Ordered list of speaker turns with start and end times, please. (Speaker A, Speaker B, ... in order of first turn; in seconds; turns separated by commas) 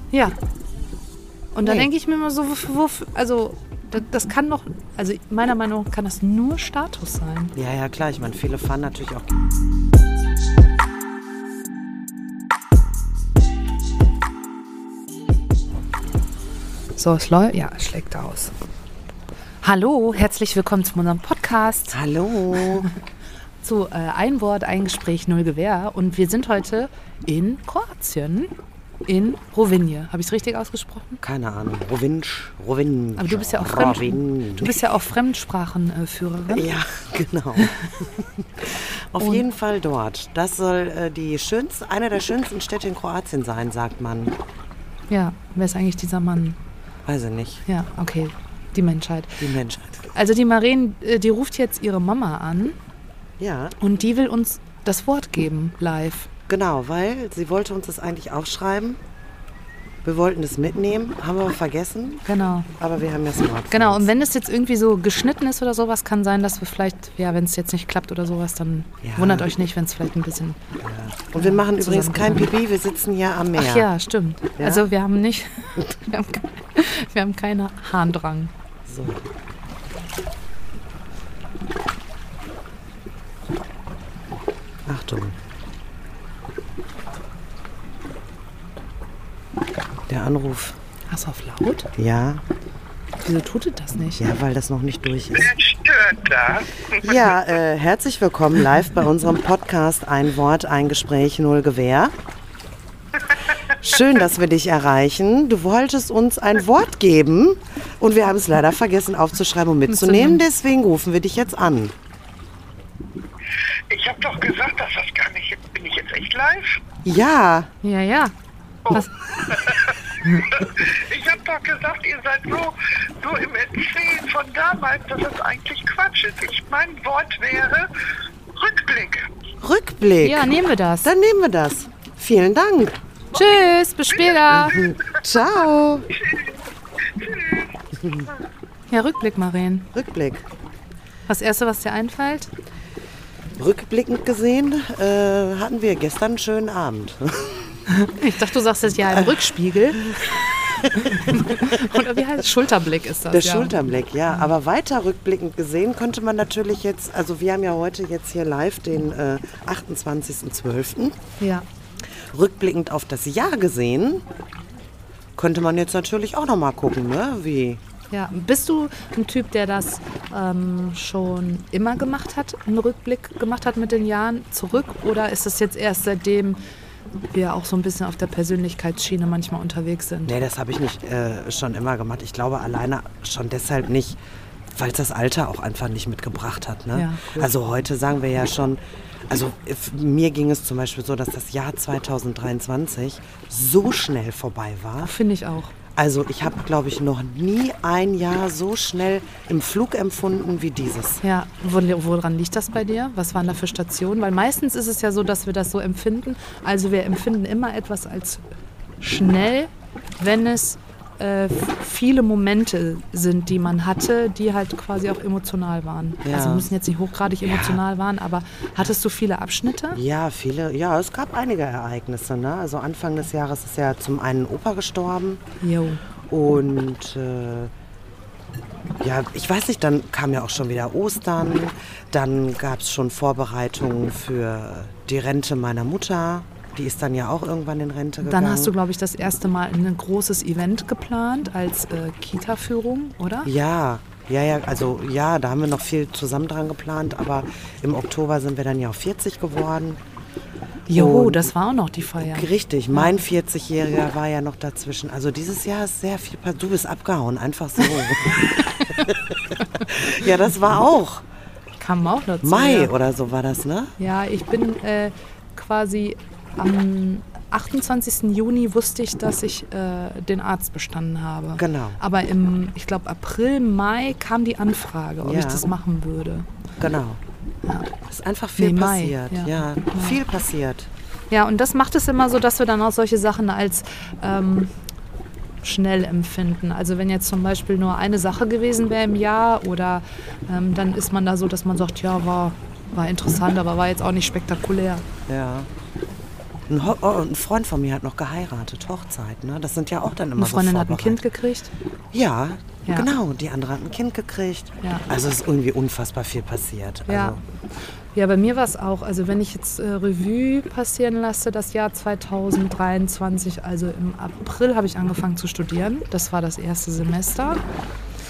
Speaker A: 1.5-7.5, Speaker B: 1.6-1.9, Speaker B: 7.6-9.3, Speaker A: 17.0-18.5, Speaker A: 19.6-22.0, Speaker B: 21.9-22.9, Speaker A: 23.6-28.5, Speaker A: 29.1-31.2, Speaker B: 31.2-34.8, Speaker A: 33.2-36.7, Speaker B: 36.5-44.3, Speaker A: 45.1-46.6, Speaker B: 47.1-47.6, Speaker A: 47.7-49.5, Speaker B: 49.4-50.1, Speaker A: 50.1-52.8, Speaker B: 53.4-53.8, Speaker A: 53.8-56.3, Speaker B: 56.5-59.0, Speaker B: 60.0-62.2, Speaker A: 62.2-62.7, Speaker B: 62.8-64.1, Speaker A: 63.7-70.6, Speaker B: 69.0-69.5, Speaker B: 70.8-73.9, Speaker A: 71.3-72.5, Speaker A: 73.5-78.5, Speaker B: 74.6-74.9, Speaker B: 78.9-79.3, Speaker B: 84.9-85.4, Speaker B: 90.1-90.8, Speaker A: 91.1-91.9, Speaker B: 92.0-92.4, Speaker A: 93.2-94.2, Speaker B: 94.2-95.5, Speaker C: 95.5-96.9, Speaker B: 96.9-102.1, Speaker B: 103.7-111.9, Speaker A: 109.9-110.4, Speaker C: 113.9-116.8, Speaker B: 117.0-117.7, Speaker A: 117.8-118.3, Speaker A: 118.9-119.3, Speaker C: 119.5-127.9, Speaker C: 128.6-129.3, Speaker B: 129.6-130.5, Speaker A: 130.2-131.1, Speaker B: 131.0-133.0, Speaker A: 133.3-134.9, Speaker B: 134.5-136.2, Speaker C: 136.2-136.6, Speaker C: 137.1-137.8, Speaker B: 138.0-138.3, Speaker A: 138.9-139.9, Speaker B: 139.9-140.4, Speaker A: 141.3-142.5, Speaker B: 143.6-147.8, Speaker A: 147.9-154.5, Speaker B: 149.1-152.1, Speaker B: 153.3-161.2, Speaker A: 161.4-161.7, Speaker B: 162.3-164.2, Speaker B: 165.4-167.8, Speaker A: 168.1-176.6, Speaker A: 177.3-180.3, Speaker B: 180.3-184.2, Speaker B: 184.7-195.2, Speaker A: 186.9-187.5, Speaker A: 195.0-195.7, Speaker B: 196.0-201.2, Speaker A: 201.2-208.4, Speaker A: 209.0-220.0, Speaker B: 216.2-216.7, Speaker B: 217.4-217.8, Speaker B: 219.9-225.4, Speaker A: 225.6-226.0, Speaker B: 226.3-227.7, Speaker B: 229.0-238.7, Speaker A: 238.2-243.5, Speaker B: 243.4-250.0, Speaker A: 250.9-253.1, Speaker B: 250.9-251.5, Speaker B: 252.2-261.2, Speaker A: 261.8-262.9, Speaker B: 262.4-264.0, Speaker A: 264.0-276.5, Speaker B: 271.6-272.0, Speaker B: 275.2-275.7, Speaker B: 276.8-277.2, Speaker A: 277.7-277.9, Speaker B: 278.1-280.9, Speaker A: 278.6-280.2, Speaker A: 281.3-284.7, Speaker A: 285.6-295.1, Speaker B: 295.3-295.7, Speaker B: 296.7-301.2, Speaker A: 300.4-301.7, Speaker B: 302.1-307.4, Speaker A: 302.9-303.1, Speaker A: 307.1-307.4, Speaker A: 308.1-317.6